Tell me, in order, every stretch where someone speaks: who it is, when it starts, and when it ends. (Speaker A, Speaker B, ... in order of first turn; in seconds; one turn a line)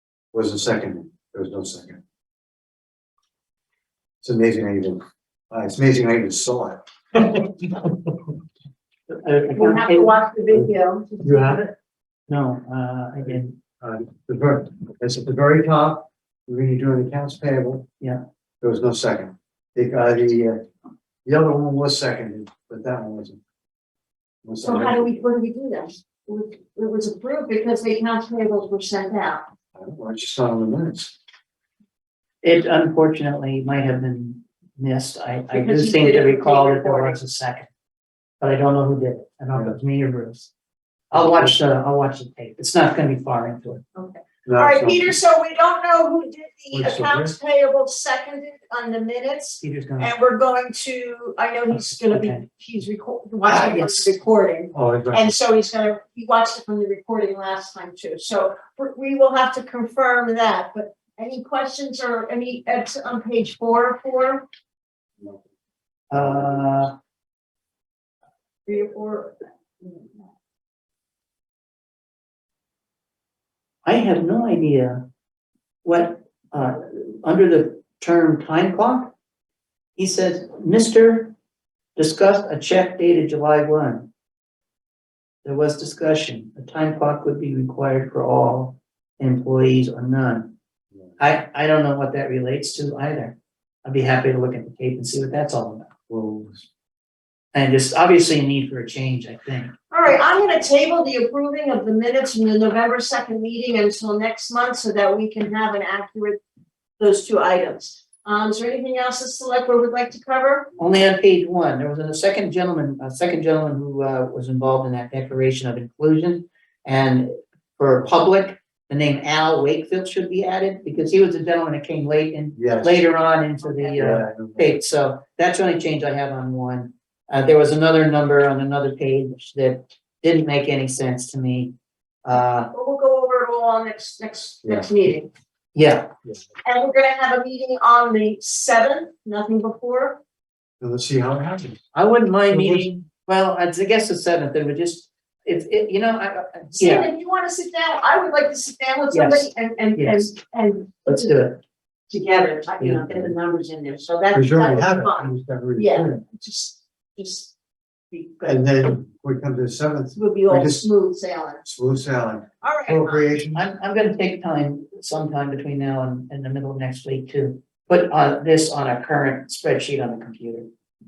Speaker A: 0.3-2.0
Speaker A: 4.2-7.5
Speaker B: 9.1-10.2
Speaker C: 9.5-11.7
Speaker A: 11.2-11.7
Speaker B: 12.3-13.6
Speaker A: 13.8-17.9
Speaker A: 18.6-20.6
Speaker A: 21.2-23.4
Speaker A: 24.4-25.1
Speaker C: 24.6-29.4
Speaker A: 29.8-31.2
Speaker B: 32.4-37.7
Speaker C: 35.5-37.2
Speaker B: 38.4-40.5
Speaker B: 41.1-43.8
Speaker A: 41.1-41.6
Speaker C: 44.0-64.5
Speaker A: 44.5-45.1
Speaker A: 46.7-47.4
Speaker B: 49.6-50.1
Speaker B: 51.7-52.4
Speaker B: 53.5-54.1
Speaker A: 54.7-55.3
Speaker B: 66.1-66.9
Speaker C: 68.7-70.2
Speaker B: 73.8-75.1
Speaker B: 75.8-79.1
Speaker B: 80.0-81.3
Speaker B: 82.0-84.1
Speaker B: 85.4-90.5
Speaker B: 91.2-95.9
Speaker A: 96.1-96.7
Speaker B: 97.5-99.7
Speaker C: 99.9-106.4
Speaker C: 107.0-110.7
Speaker B: 110.8-131.7
Speaker A: 122.6-123.1
Speaker C: 123.6-124.0
Speaker A: 124.0-124.7
Speaker B: 132.2-132.7
Speaker C: 132.7-135.3
Speaker A: 134.6-134.9
Speaker B: 135.8-136.1
Speaker C: 136.7-140.2
Speaker A: 140.8-141.8
Speaker B: 141.9-147.1
Speaker A: 142.5-142.9
Speaker C: 146.8-151.4
Speaker B: 149.1-150.3
Speaker B: 151.1-151.6
Speaker C: 152.1-157.6
Speaker B: 152.8-153.3
Speaker A: 154.3-156.2
Speaker C: 158.1-158.7
Speaker A: 158.4-160.9
Speaker C: 160.1-161.6
Speaker A: 161.6-163.6
Speaker C: 162.6-163.3
Speaker B: 163.5-170.7